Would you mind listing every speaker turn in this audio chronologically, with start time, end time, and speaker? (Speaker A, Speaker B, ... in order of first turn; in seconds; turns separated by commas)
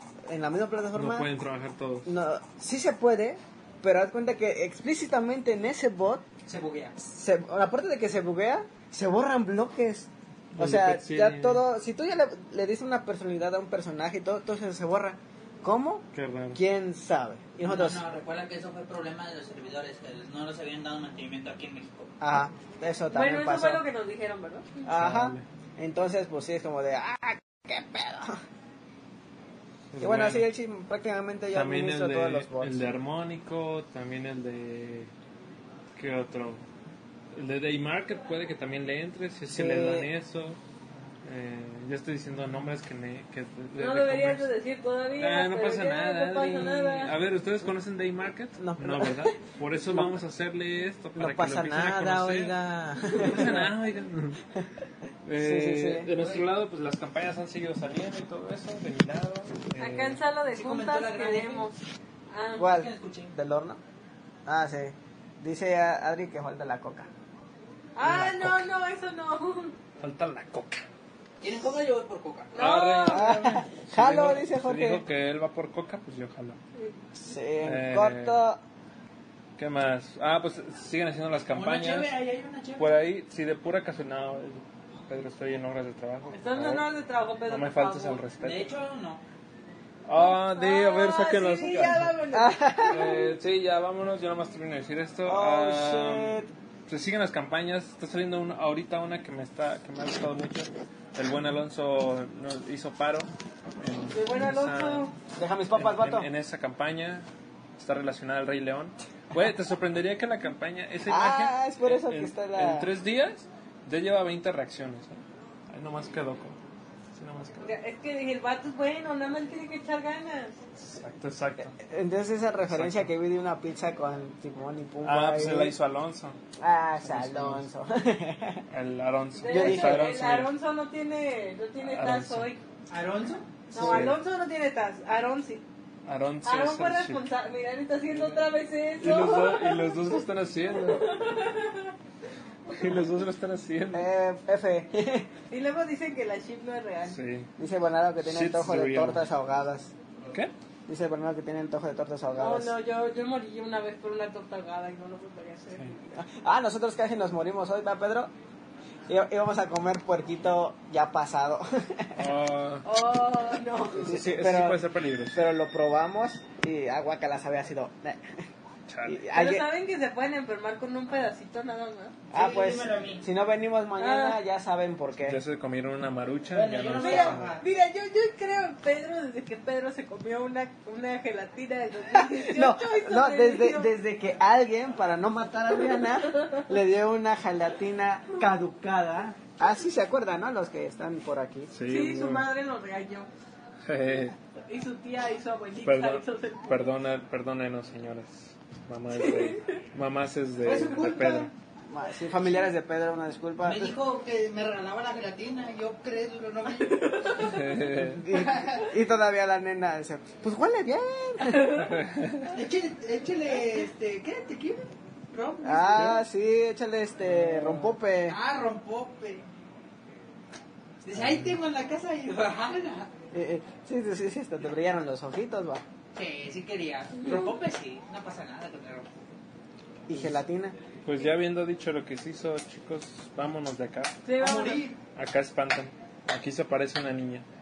Speaker A: 0.3-1.3, Speaker B: 0.9-2.1, Speaker A: 2.0-6.3, Speaker C: 6.5-7.0, Speaker A: 7.0-18.1, Speaker B: 10.5-11.6, Speaker B: 16.1-16.6, Speaker C: 17.6-22.1, Speaker A: 22.2-23.8, Speaker D: 23.1-24.8, Speaker A: 24.9-28.4, Speaker B: 24.9-25.4, Speaker B: 29.9-30.5, Speaker A: 30.0-32.9, Speaker B: 31.5-35.1, Speaker B: 36.0-36.6, Speaker B: 37.3-40.6, Speaker A: 39.5-40.1, Speaker B: 41.2-44.5, Speaker D: 43.8-47.1, Speaker B: 45.2-52.5, Speaker A: 48.6-49.3, Speaker A: 51.2-53.7, Speaker B: 53.2-54.4, Speaker B: 55.2-60.2, Speaker A: 55.4-56.1, Speaker C: 56.1-56.4, Speaker D: 59.8-61.8, Speaker C: 60.5-61.7, Speaker D: 62.3-62.8, Speaker A: 62.6-63.8, Speaker C: 62.7-63.3, Speaker A: 64.5-67.1, Speaker D: 68.0-69.8, Speaker B: 68.0-68.6, Speaker B: 70.0-70.8, Speaker C: 71.4-72.6, Speaker D: 72.5-73.4, Speaker B: 72.5-76.6, Speaker A: 73.1-75.0, Speaker A: 77.1-78.6, Speaker B: 77.6-78.4, Speaker B: 79.6-82.1, Speaker C: 81.5-83.0, Speaker B: 82.8-86.9, Speaker D: 86.3-88.2, Speaker B: 87.5-88.7, Speaker C: 88.4-89.2, Speaker B: 90.0-92.1, Speaker D: 90.1-93.2, Speaker A: 92.3-93.1, Speaker B: 92.9-105.1, Speaker A: 95.3-96.5, Speaker D: 104.1-105.1, Speaker A: 105.4-106.3, Speaker B: 105.7-107.3, Speaker B: 107.8-116.6, Speaker A: 111.1-112.9, Speaker B: 117.1-117.7, Speaker D: 117.6-120.6, Speaker B: 120.8-121.8, Speaker A: 121.7-125.8, Speaker B: 122.7-123.1, Speaker B: 125.0-126.4, Speaker A: 126.6-128.7, Speaker B: 127.0-127.7, Speaker B: 128.7-130.5, Speaker D: 129.4-132.6, Speaker A: 129.5-130.2, Speaker B: 131.8-132.5, Speaker C: 132.9-133.6, Speaker D: 133.7-135.6, Speaker A: 133.7-134.1, Speaker B: 133.8-134.2, Speaker B: 136.1-137.2, Speaker D: 136.4-140.2, Speaker B: 138.1-138.4, Speaker B: 139.0-141.1, Speaker D: 140.7-141.9, Speaker B: 142.7-144.1, Speaker A: 143.9-145.3, Speaker D: 145.5-147.2, Speaker B: 147.1-147.5, Speaker A: 147.6-149.9, Speaker B: 148.2-149.2, Speaker A: 150.9-152.7, Speaker D: 152.4-156.0, Speaker A: 156.1-158.3, Speaker A: 159.1-162.3, Speaker B: 162.2-162.8, Speaker D: 162.8-164.1, Speaker A: 164.0-168.3, Speaker B: 164.0-165.4, Speaker B: 168.9-169.2, Speaker A: 169.1-169.7, Speaker D: 169.3-172.2, Speaker A: 172.3-175.4, Speaker C: 172.3-173.2, Speaker D: 174.0-174.4, Speaker B: 175.2-177.5, Speaker C: 176.5-177.7, Speaker D: 177.0-183.9, Speaker A: 182.3-191.7, Speaker D: 186.3-186.6, Speaker B: 191.7-192.5, Speaker D: 191.8-193.3, Speaker B: 193.8-194.3, Speaker D: 194.7-196.8, Speaker B: 195.8-201.5, Speaker D: 199.2-199.8, Speaker C: 200.6-201.5, Speaker A: 201.9-204.0, Speaker C: 203.6-207.4, Speaker D: 206.8-207.6, Speaker B: 207.4-208.2, Speaker A: 208.0-211.8, Speaker C: 208.3-208.9, Speaker D: 211.4-212.0, Speaker B: 211.8-212.5, Speaker C: 212.4-216.2, Speaker A: 215.6-218.4, Speaker B: 217.4-217.9, Speaker C: 218.3-219.5, Speaker C: 221.0-223.1, Speaker A: 223.3-225.8, Speaker C: 226.2-229.3, Speaker D: 227.2-227.5, Speaker A: 230.1-230.8, Speaker B: 230.1-230.4, Speaker B: 231.0-234.2, Speaker D: 234.2-234.9, Speaker C: 234.3-235.0, Speaker B: 235.1-237.5